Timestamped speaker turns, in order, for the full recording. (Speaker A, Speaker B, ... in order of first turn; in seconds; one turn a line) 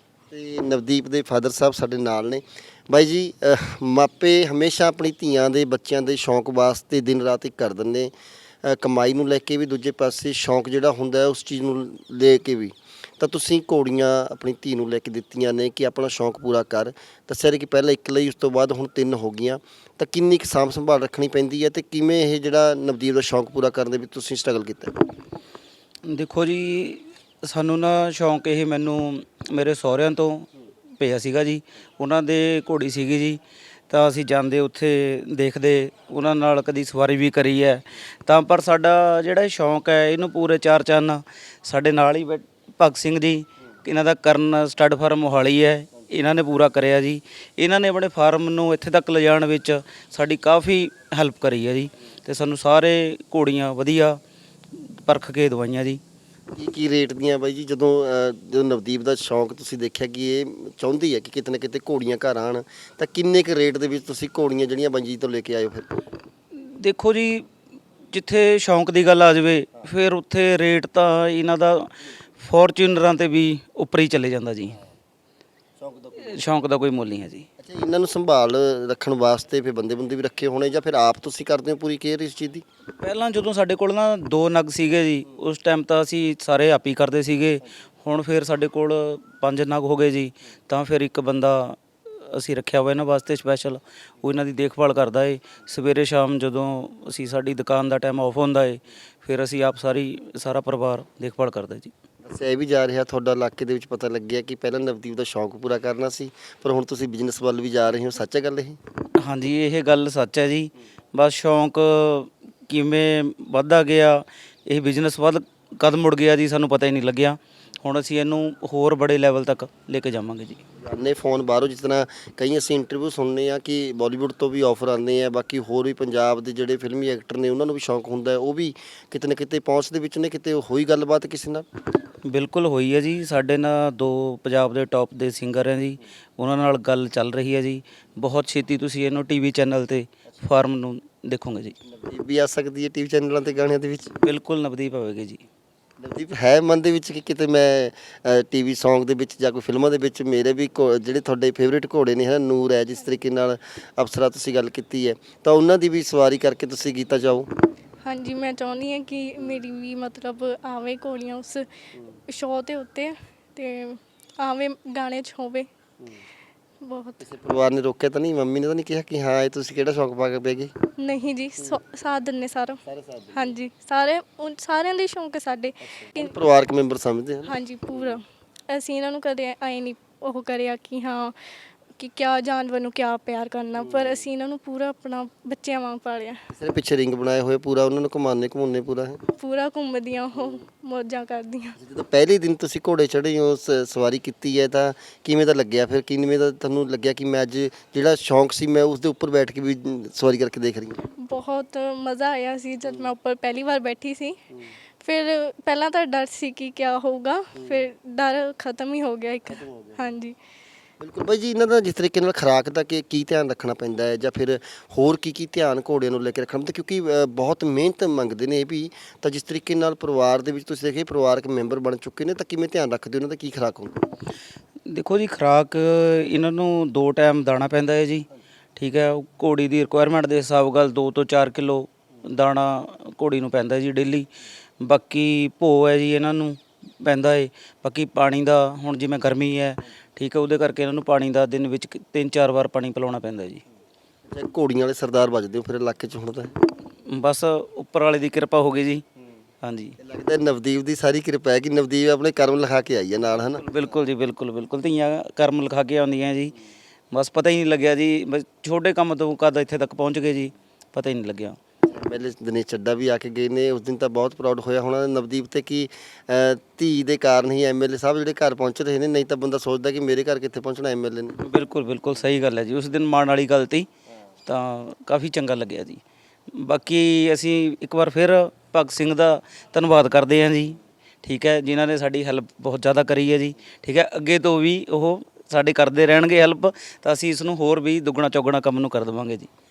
Speaker A: 0.3-8.1
Speaker A: 8.6-24.9
Speaker B: 26.1-54.2
Speaker B: 54.7-56.0
Speaker A: 56.5-65.9
Speaker B: 66.5-67.5
Speaker B: 68.1-74.8
Speaker A: 75.8-76.3
Speaker B: 76.2-77.5
Speaker A: 77.6-82.6
Speaker B: 83.0-101.9
Speaker A: 102.2-108.8
Speaker B: 109.2-120.6
Speaker A: 120.8-131.7
Speaker B: 132.3-141.8
Speaker A: 141.8-144.2
Speaker B: 144.2-145.4
Speaker A: 146.0-157.5
Speaker C: 158.0-161.7
Speaker C: 162.3-165.7
Speaker C: 166.8-167.2
Speaker A: 167.2-170.7
Speaker C: 171.0-172.8
Speaker A: 172.8-173.5
Speaker C: 173.3-176.3
Speaker A: 175.8-178.2
Speaker C: 177.5-181.4
Speaker C: 182.0-186.4
Speaker A: 183.8-184.2
Speaker A: 186.5-189.2
Speaker C: 189.3-191.8
Speaker A: 191.8-201.0
Speaker C: 201.1-204.4
Speaker C: 205.0-210.4
Speaker A: 207.6-207.8
Speaker A: 209.5-210.0
Speaker A: 211.0-223.9
Speaker B: 224.9-234.3
Speaker B: 234.8-243.6
Speaker A: 244.3-246.5
Speaker B: 247.1-249.0
Speaker B: 249.6-250.0
Speaker A: 250.0-253.6
Speaker B: 253.5-256.6
Speaker B: 257.1-261.6
Speaker A: 261.9-271.4
Speaker B: 271.4-273.9
Speaker B: 274.5-276.0
Speaker B: 276.5-289.5